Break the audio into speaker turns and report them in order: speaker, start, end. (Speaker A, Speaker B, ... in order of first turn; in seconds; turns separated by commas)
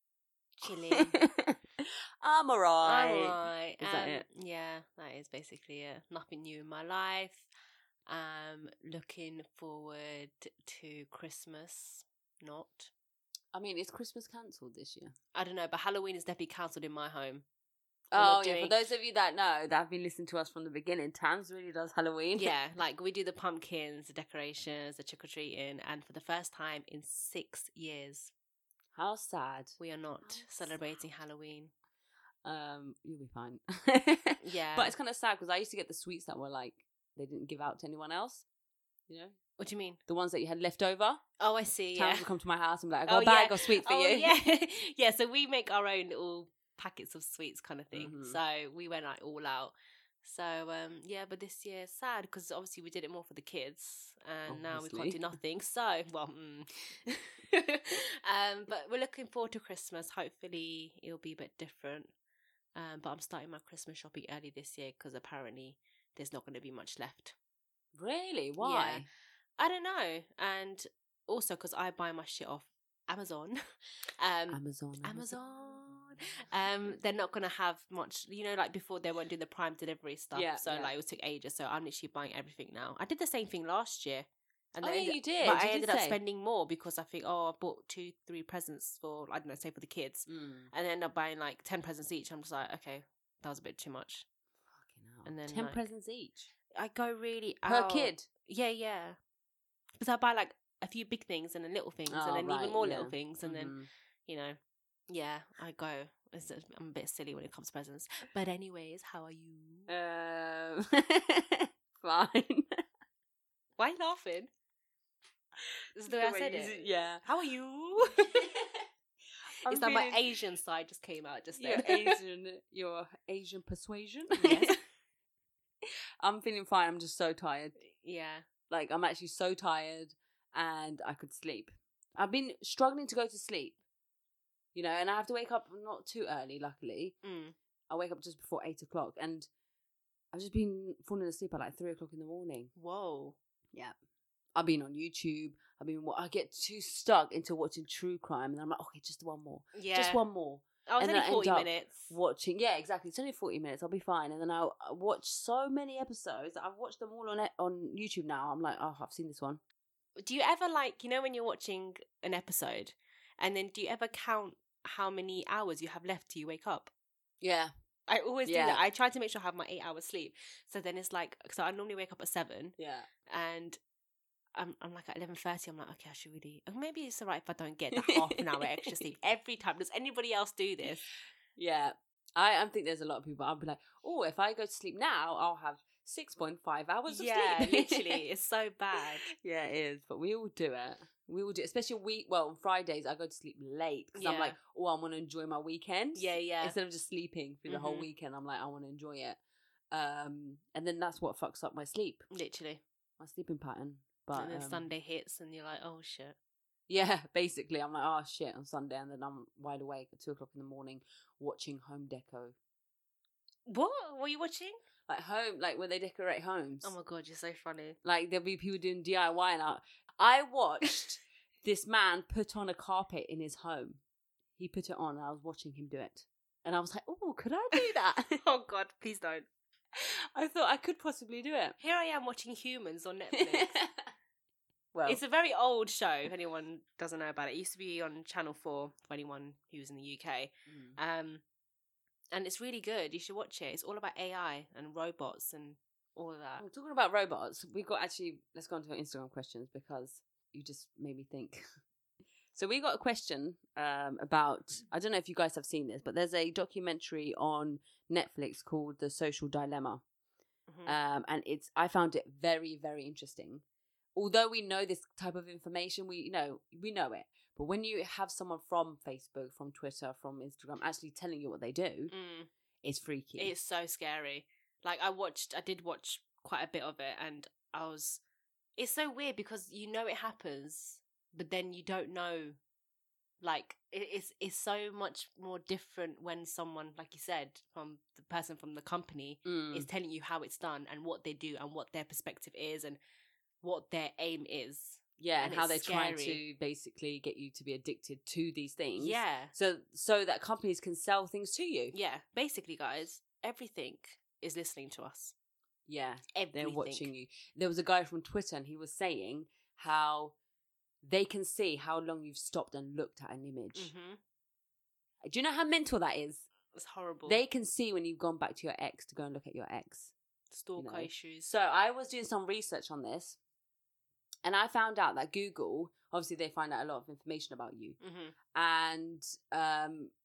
Speaker A: 0.6-1.2, Speaker B: 0.9-4.2, Speaker A: 2.8-7.5, Speaker A: 8.1-12.9, Speaker B: 13.5-15.1, Speaker A: 15.3-17.4, Speaker B: 18.1-22.5, Speaker A: 18.1-18.8, Speaker A: 22.4-28.3, Speaker B: 28.9-30.7, Speaker A: 29.8-31.7, Speaker B: 32.4-38.4, Speaker A: 34.4-34.9, Speaker B: 39.1-39.4, Speaker A: 39.6-40.0, Speaker B: 40.1-41.2, Speaker A: 41.4-42.3, Speaker B: 41.9-44.3, Speaker A: 43.0-62.1, Speaker B: 47.9-48.4, Speaker B: 54.5-55.3, Speaker A: 62.7-67.3, Speaker B: 67.9-69.1, Speaker A: 68.6-69.0, Speaker A: 69.6-73.6, Speaker A: 74.2-94.2, Speaker B: 74.5-75.3, Speaker B: 80.3-80.9, Speaker B: 84.8-86.2, Speaker B: 90.3-90.7, Speaker B: 94.7-96.5, Speaker A: 95.2-95.8, Speaker A: 96.7-99.2, Speaker B: 97.6-98.3, Speaker A: 100.0-103.7, Speaker B: 102.1-103.9, Speaker A: 104.2-104.6, Speaker A: 105.1-109.9, Speaker B: 109.9-112.8, Speaker A: 113.8-114.5, Speaker A: 116.0-118.5, Speaker B: 116.0-117.2, Speaker B: 118.4-118.6, Speaker B: 119.6-120.2, Speaker A: 119.7-122.2, Speaker B: 121.6-124.7, Speaker A: 124.4-124.8, Speaker B: 126.2-127.8, Speaker A: 127.8-128.4, Speaker B: 128.7-133.8, Speaker B: 134.7-137.2, Speaker A: 137.2-137.5, Speaker B: 137.9-139.5, Speaker B: 140.3-142.7, Speaker A: 142.8-143.4, Speaker B: 144.5-159.6, Speaker A: 149.7-150.2, Speaker A: 150.9-152.1, Speaker A: 160.2-166.9, Speaker B: 167.4-167.7, Speaker A: 168.1-172.7, Speaker B: 168.4-168.8, Speaker B: 172.8-173.1, Speaker A: 173.3-173.8, Speaker A: 174.5-181.1, Speaker B: 177.9-178.4, Speaker B: 181.6-188.2, Speaker A: 187.1-189.3, Speaker B: 189.3-199.4, Speaker A: 194.2-194.6, Speaker A: 196.1-196.8, Speaker A: 197.7-198.1, Speaker B: 199.9-202.2, Speaker A: 202.3-202.8, Speaker B: 203.2-204.9, Speaker A: 204.3-206.4, Speaker B: 206.9-212.6, Speaker A: 213.7-214.8, Speaker B: 215.1-216.9, Speaker A: 216.8-218.0, Speaker B: 218.0-224.0, Speaker B: 224.6-228.4, Speaker A: 228.4-229.5, Speaker B: 229.9-231.8, Speaker A: 231.8-233.8, Speaker B: 233.3-233.9, Speaker B: 234.9-235.2, Speaker A: 235.0-241.4, Speaker B: 240.7-241.0, Speaker A: 242.3-246.6, Speaker B: 246.6-251.6, Speaker B: 252.5-260.0, Speaker A: 260.7-260.9, Speaker B: 260.9-263.6, Speaker B: 264.1-272.1, Speaker A: 272.1-272.5, Speaker B: 272.8-273.5, Speaker A: 273.4-278.2, Speaker A: 278.8-282.6, Speaker A: 283.4-293.0, Speaker B: 289.4-289.9, Speaker A: 293.6-296.4, Speaker B: 295.2-301.9, Speaker A: 299.0-299.5, Speaker A: 301.9-305.3, Speaker B: 305.9-310.3, Speaker A: 306.3-307.1, Speaker B: 311.0-313.9, Speaker A: 313.7-314.2, Speaker B: 315.2-316.4, Speaker A: 316.7-317.4, Speaker B: 317.2-320.1, Speaker A: 320.5-321.5, Speaker B: 320.8-323.4, Speaker B: 324.4-328.0, Speaker A: 328.0-328.3, Speaker B: 328.5-330.1